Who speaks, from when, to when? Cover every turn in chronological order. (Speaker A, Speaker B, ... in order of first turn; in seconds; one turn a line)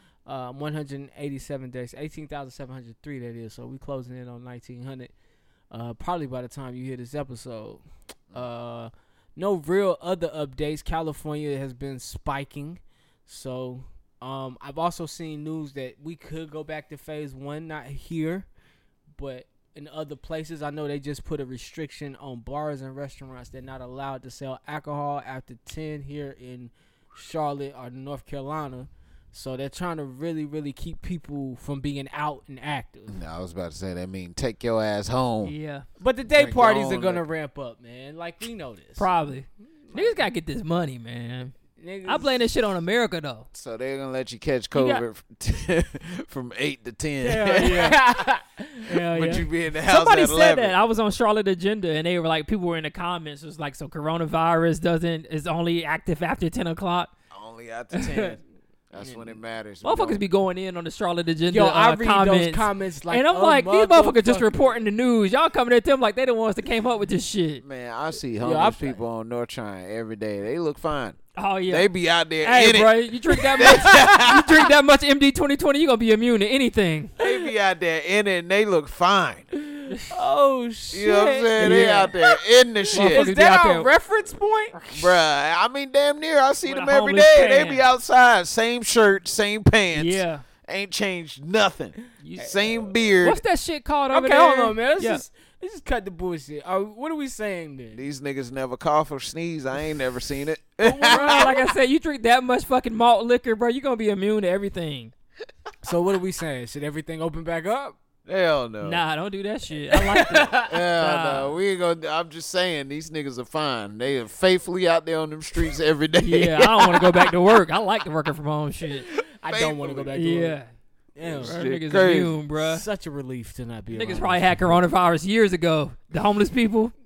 Speaker A: 0.2-5.1
Speaker A: 5.7-18.5
Speaker A: 19.1-33.2
Speaker B: 33.1-35.5
Speaker C: 35.4-35.9
Speaker A: 36.0-39.1
Speaker B: 36.3-37.2
Speaker C: 39.0-43.5
Speaker A: 39.8-40.2
Speaker A: 41.8-42.5
Speaker B: 43.5-48.0
Speaker C: 44.7-45.0
Speaker C: 47.2-48.0
Speaker A: 47.5-48.9
Speaker C: 48.9-57.1
Speaker B: 49.1-50.8
Speaker B: 57.3-60.2
Speaker C: 57.9-58.3
Speaker A: 59.0-59.3
Speaker C: 59.8-67.6
Speaker A: 61.5-64.8
Speaker B: 67.6-74.7
Speaker A: 68.4-69.0
Speaker C: 71.3-77.1
Speaker B: 77.2-79.5
Speaker A: 79.7-82.3
Speaker B: 80.9-83.3
Speaker C: 81.6-82.1
Speaker A: 82.9-84.8
Speaker C: 82.9-83.9
Speaker B: 84.9-93.4
Speaker C: 86.6-87.8
Speaker C: 89.9-90.4
Speaker C: 92.2-92.6
Speaker C: 93.2-95.2
Speaker A: 94.1-98.0
Speaker B: 97.9-101.5
Speaker A: 100.8-101.7
Speaker C: 101.0-105.1
Speaker A: 105.8-108.0
Speaker B: 108.2-109.0
Speaker C: 108.8-111.5
Speaker A: 110.1-110.7
Speaker B: 110.4-117.3
Speaker C: 116.2-119.1
Speaker B: 119.1-120.1
Speaker A: 119.4-120.6
Speaker C: 120.1-120.7
Speaker A: 121.1-121.5
Speaker B: 121.2-122.4
Speaker C: 121.4-122.8
Speaker A: 122.6-124.8
Speaker C: 123.9-126.9